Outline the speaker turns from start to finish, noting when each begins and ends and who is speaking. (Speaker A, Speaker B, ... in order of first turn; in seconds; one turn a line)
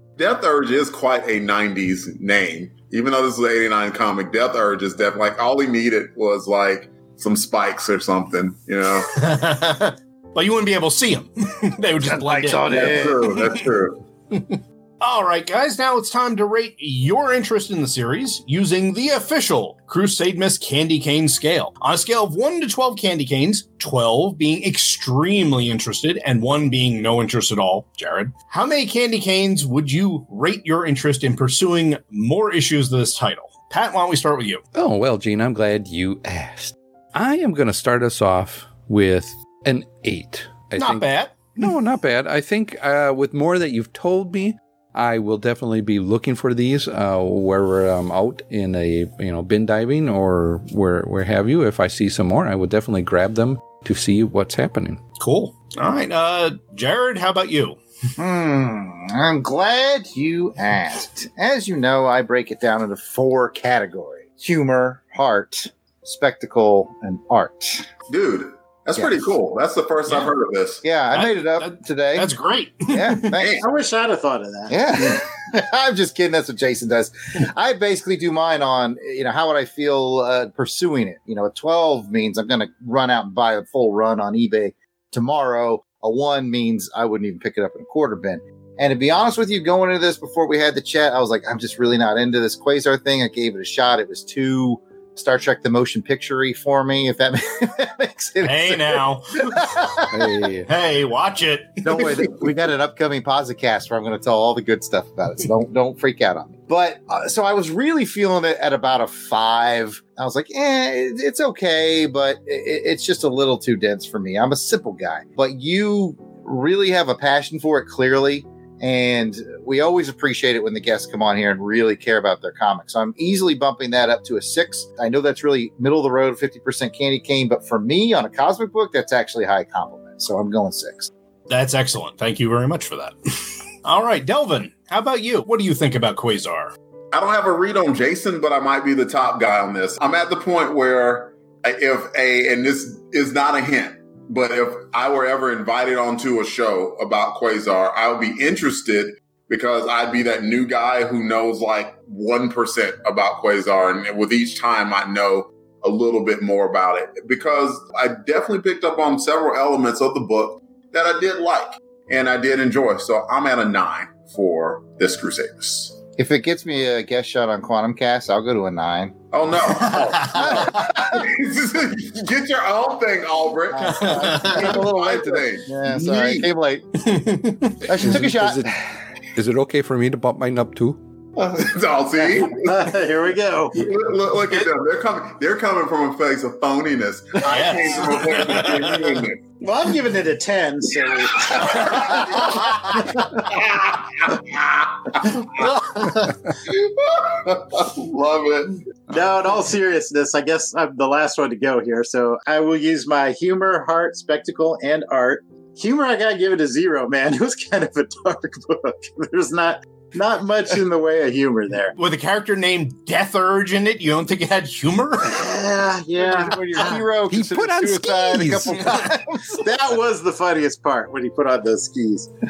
Speaker A: 0.2-9.1
Speaker B: 9.1-13.6
Speaker C: 12.0-13.3
Speaker A: 12.7-14.0
Speaker B: 14.3-34.6
Speaker D: 34.7-41.0
Speaker B: 40.8-41.7
Speaker D: 41.6-55.0
Speaker B: 55.2-57.8
Speaker C: 58.2-67.9
Speaker A: 68.1-70.8
Speaker C: 70.8-72.3
Speaker B: 71.1-73.4
Speaker C: 72.9-73.7
Speaker A: 73.4-73.7
Speaker E: 73.6-74.7
Speaker C: 74.7-99.0
Speaker B: 98.4-99.8
Speaker C: 99.6-100.1
Speaker D: 100.1-100.7
Speaker B: 100.7-102.3
Speaker C: 101.8-131.1
Speaker B: 131.5-136.7
Speaker A: 137.1-166.0
Speaker C: 166.2-169.1
Speaker A: 169.3-176.5
Speaker C: 170.3-171.2
Speaker C: 173.7-176.8
Speaker B: 174.0-174.6
Speaker B: 177.0-177.8
Speaker C: 177.8-178.8
Speaker D: 178.0-178.8
Speaker D: 179.3-181.0
Speaker A: 181.4-183.0
Speaker E: 182.6-183.8
Speaker A: 183.7-189.4
Speaker B: 187.4-189.1
Speaker E: 189.6-193.4
Speaker A: 191.3-192.8
Speaker A: 193.3-198.8
Speaker E: 199.1-211.9
Speaker B: 211.9-215.6
Speaker E: 215.3-217.0
Speaker C: 216.1-219.7
Speaker D: 217.3-218.9
Speaker B: 218.9-219.1
Speaker E: 219.6-222.3